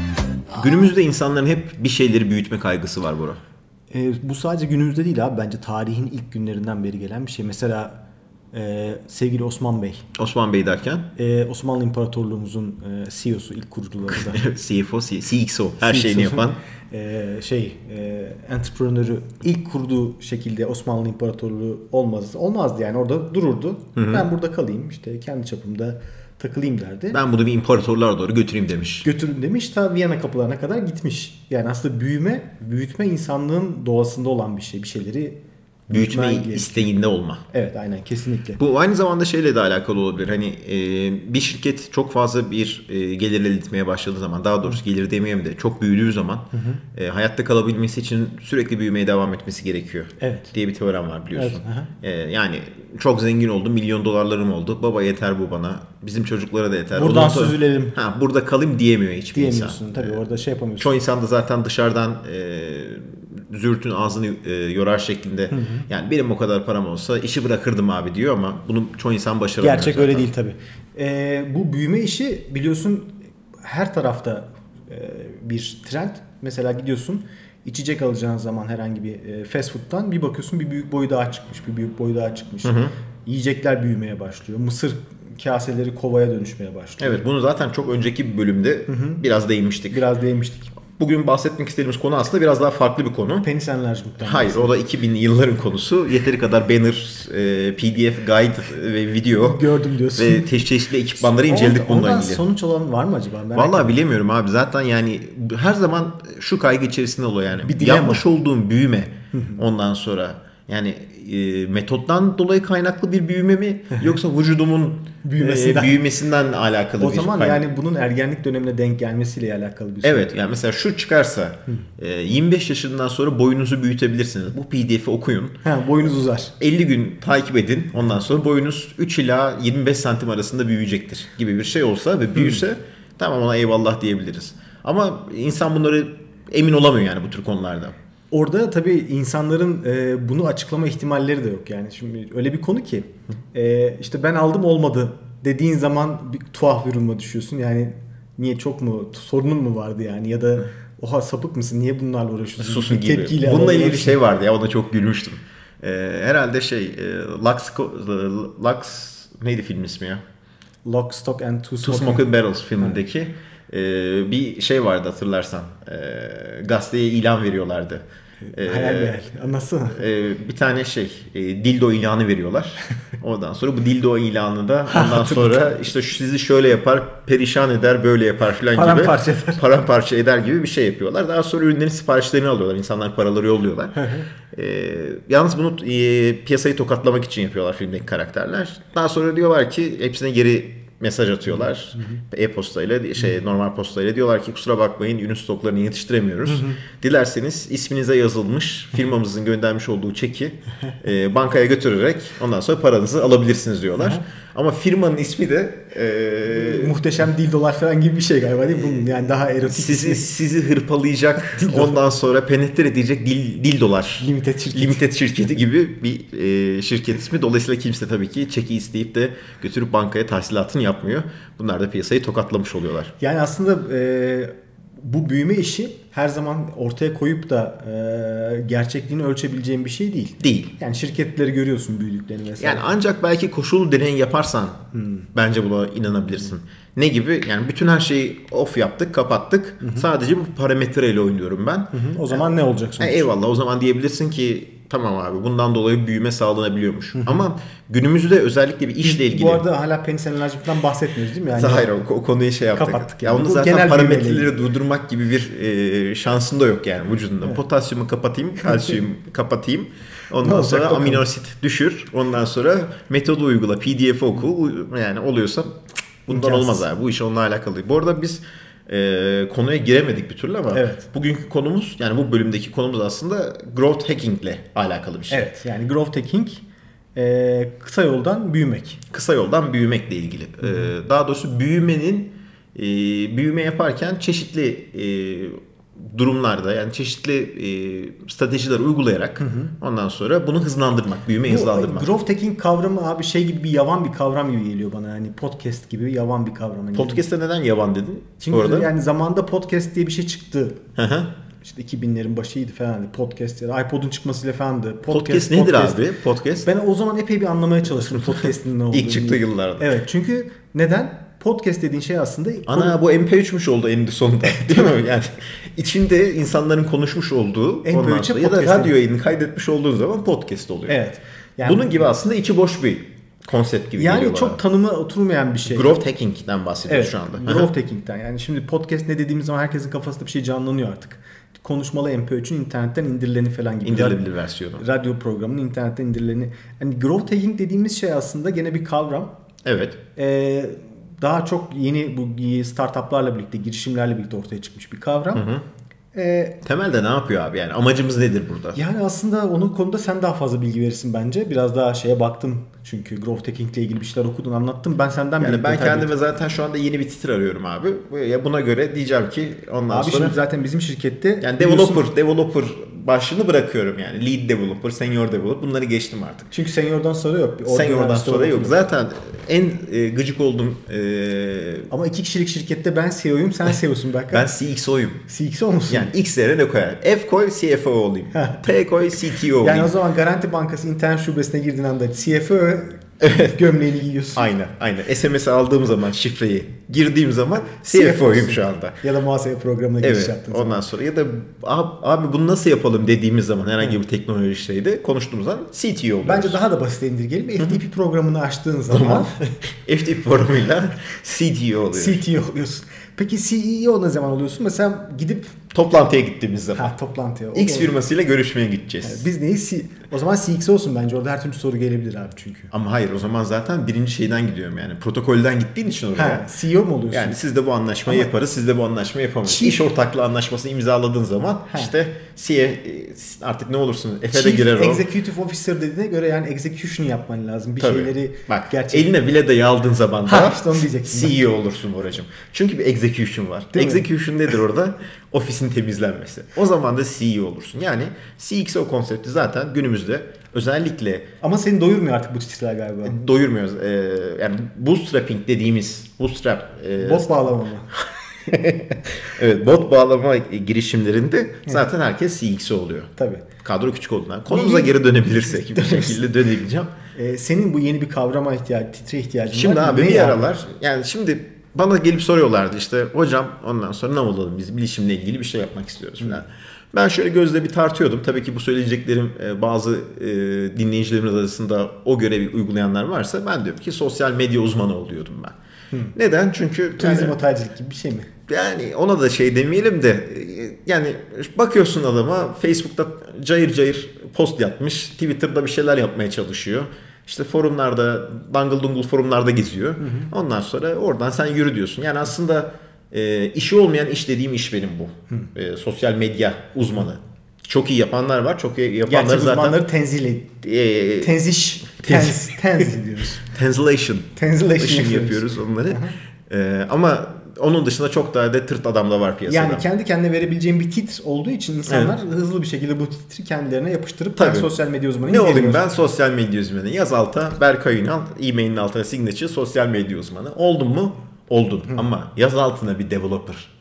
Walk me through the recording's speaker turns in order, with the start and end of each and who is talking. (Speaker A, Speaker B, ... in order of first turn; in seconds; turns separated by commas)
Speaker A: 0.5-3.4, Speaker B: 3.9-8.0, Speaker B: 8.5-10.1, Speaker A: 10.2-11.1, Speaker B: 11.2-14.4, Speaker A: 14.1-16.6, Speaker B: 15.8-27.2, Speaker A: 23.9-24.2, Speaker A: 27.1-29.1, Speaker B: 29.0-35.4, Speaker A: 35.9-37.4, Speaker B: 35.9-36.9, Speaker B: 37.5-38.6, Speaker A: 38.6-60.1, Speaker B: 46.5-46.8, Speaker B: 50.2-50.5, Speaker B: 51.3-51.9, Speaker B: 56.9-58.0, Speaker B: 59.3-61.0, Speaker A: 60.8-70.3, Speaker B: 65.5-65.8, Speaker B: 69.6-87.2, Speaker A: 82.6-82.9, Speaker A: 87.0-90.0, Speaker B: 88.9-89.2, Speaker B: 89.9-90.7, Speaker A: 91.0-93.5, Speaker B: 93.4-94.7, Speaker A: 94.2-99.6, Speaker B: 99.3-100.5, Speaker A: 100.2-102.4, Speaker B: 101.3-104.0, Speaker A: 103.5-117.6, Speaker B: 107.6-108.2, Speaker B: 109.3-109.6, Speaker B: 115.2-116.0, Speaker B: 117.0-120.3, Speaker A: 120.0-125.6, Speaker B: 125.6-126.5, Speaker A: 126.6-137.9, Speaker B: 138.3-154.2, Speaker A: 152.6-160.2, Speaker B: 160.8-162.2, Speaker A: 161.8-168.0, Speaker B: 168.5-170.0, Speaker A: 168.5-169.2, Speaker A: 169.9-207.0, Speaker B: 174.9-175.5, Speaker B: 178.7-179.6, Speaker B: 184.0-184.2, Speaker B: 196.5-196.8, Speaker B: 206.5-210.3, Speaker A: 208.8-223.1, Speaker B: 211.5-212.0, Speaker B: 214.2-215.0, Speaker B: 223.2-232.9, Speaker A: 230.4-230.7, Speaker A: 232.6-242.5, Speaker B: 234.9-235.3, Speaker B: 241.9-243.3, Speaker A: 243.0-249.6, Speaker B: 247.2-247.4, Speaker B: 249.0-251.9, Speaker A: 251.5-275.5, Speaker B: 252.7-254.5, Speaker B: 260.4-261.2, Speaker B: 266.3-266.8, Speaker B: 270.7-271.0, Speaker B: 275.3-276.6, Speaker B: 277.1-279.0, Speaker A: 279.1-292.1, Speaker B: 289.4-289.7, Speaker B: 291.4-297.2, Speaker A: 296.9-298.9, Speaker B: 298.4-300.8, Speaker A: 300.9-301.3, Speaker B: 301.6-306.0, Speaker A: 305.1-306.7, Speaker B: 306.6-313.0, Speaker A: 308.1-309.9, Speaker A: 312.7-320.9, Speaker B: 317.8-318.9, Speaker B: 320.9-322.0, Speaker A: 321.6-324.6, Speaker B: 324.0-325.9, Speaker A: 325.7-327.7, Speaker B: 326.9-334.3, Speaker A: 333.8-334.8, Speaker B: 334.8-339.3, Speaker A: 339.6-340.0, Speaker B: 340.1-345.5, Speaker A: 345.3-345.6, Speaker B: 346.1-346.6, Speaker A: 346.6-348.8, Speaker B: 348.7-356.1, Speaker A: 355.4-360.4, Speaker B: 359.9-362.1, Speaker A: 361.4-366.5, Speaker B: 366.5-368.9, Speaker A: 367.7-371.9, Speaker B: 371.9-374.5, Speaker A: 374.3-375.2, Speaker B: 375.3-376.1, Speaker A: 375.9-379.9, Speaker B: 378.3-378.6, Speaker B: 379.6-384.5, Speaker A: 383.2-383.5, Speaker A: 384.3-389.0, Speaker B: 387.9-390.8, Speaker A: 390.0-396.6, Speaker B: 396.2-399.4, Speaker A: 398.9-402.2, Speaker B: 401.9-405.6, Speaker A: 405.7-406.9, Speaker B: 406.7-407.9, Speaker A: 407.5-409.3, Speaker B: 409.0-412.7, Speaker A: 412.7-416.5, Speaker B: 416.1-417.4, Speaker A: 417.1-425.1, Speaker B: 419.4-419.8, Speaker B: 424.3-429.1, Speaker A: 427.8-441.3, Speaker B: 430.3-431.4, Speaker B: 433.7-434.1, Speaker B: 441.4-443.1, Speaker A: 443.0-447.4, Speaker B: 447.0-447.9, Speaker A: 448.5-456.9, Speaker B: 453.2-453.4, Speaker B: 454.5-456.2, Speaker B: 457.1-460.5, Speaker A: 459.5-475.6, Speaker A: 476.1-477.4, Speaker B: 477.0-478.3, Speaker A: 478.5-499.8, Speaker B: 490.0-490.3, Speaker B: 499.1-500.5, Speaker A: 500.6-501.3, Speaker B: 501.2-503.4, Speaker A: 502.0-502.8, Speaker A: 503.4-509.8, Speaker B: 504.4-506.2, Speaker B: 509.5-515.8, Speaker A: 511.9-512.1, Speaker A: 514.4-514.7, Speaker A: 515.2-523.7